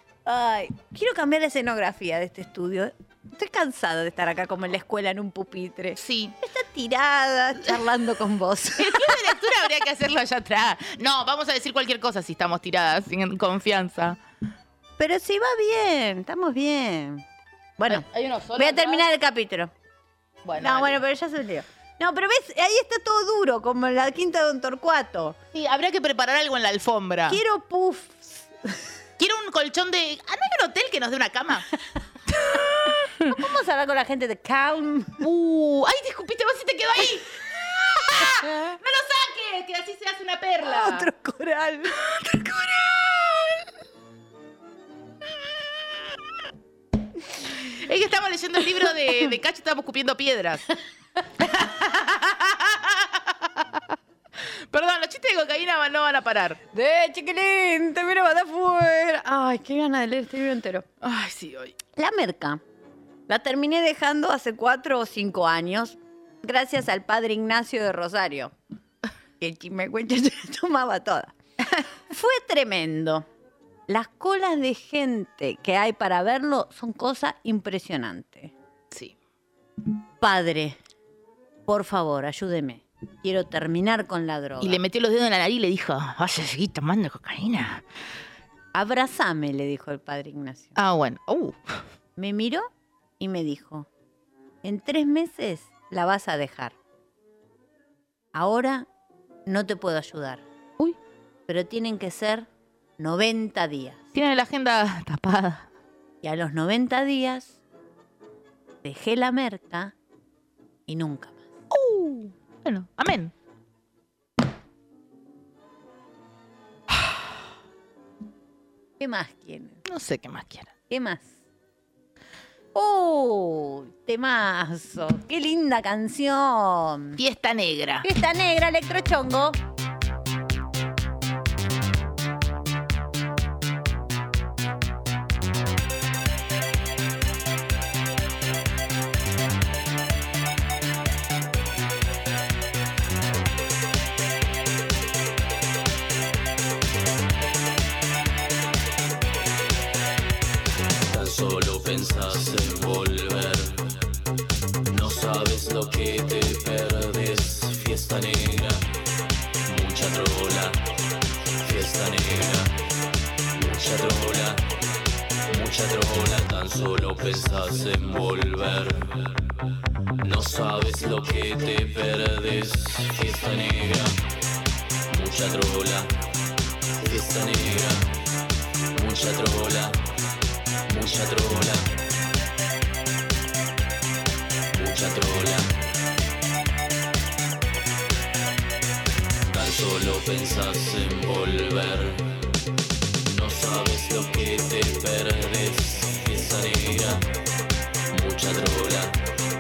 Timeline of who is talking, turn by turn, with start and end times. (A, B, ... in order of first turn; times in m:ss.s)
0:00.3-0:09.2 A
0:06.0-0:06.4 B
0:08.8-0:14.2 B
0:15.0-0:17.2 A
0:17.8-0:18.0 A
0:17.9-0:19.0 B
0:18.6-0:19.7 A
0:20.4-0:21.0 B
0:20.6-0:25.4 A
0:25.5-0:27.4 B
0:27.3-0:28.8 A
0:29.2-0:31.7 B
0:32.3-0:33.3 B
0:33.2-0:35.2 A
0:35.2-0:41.1 B
0:40.6-0:42.0 A
0:42.1-0:42.8 B
0:47.6-0:50.6 B
0:51.4-0:53.8 B
0:54.5-0:56.6 B
0:56.7-1:00.9 A
1:01.0-1:01.8 B
1:02.0-1:02.6 A
1:03.3-1:08.5 A
1:09.4-1:11.3 A
1:12.1-1:13.3 A
1:13.9-1:18.5 A
1:18.9-1:19.2 B
1:20.2-1:20.8 A
1:21.7-1:24.8 A
1:24.6-1:27.8 B
1:28.7-1:30.7 A
1:30.8-1:31.8 B
1:32.2-1:32.7 A
1:33.2-1:33.9 A
1:34.6-1:36.8 A
1:38.3-1:38.9 A
1:39.5-1:40.4 A
1:41.5-1:42.5 A
1:43.0-1:44.0 A
1:44.1-1:45.7 B
1:46.2-1:47.6 A
1:48.8-1:49.9 A
1:50.9-1:51.4 A
1:51.7-1:53.3 B
1:59.0-1:59.8 A
1:59.8-2:00.7 B
2:00.9-2:01.4 A
2:02.8-2:07.2 A
2:07.2-2:08.1 B
2:08.0-2:09.6 A
2:31.1-2:34.0 C
2:34.9-2:38.9 C
2:39.7-2:40.8 C
2:41.6-2:42.8 C
2:43.6-2:44.7 C
2:45.5-2:49.5 C
2:50.2-2:54.2 C
2:55.1-2:56.2 C
2:57.0-2:58.1 C
2:58.9-3:00.0 C
3:00.9-3:01.9 C
3:04.7-3:05.8 C
3:09.5-3:12.4 C
3:13.3-3:17.2 C
3:18.1-3:19.2 C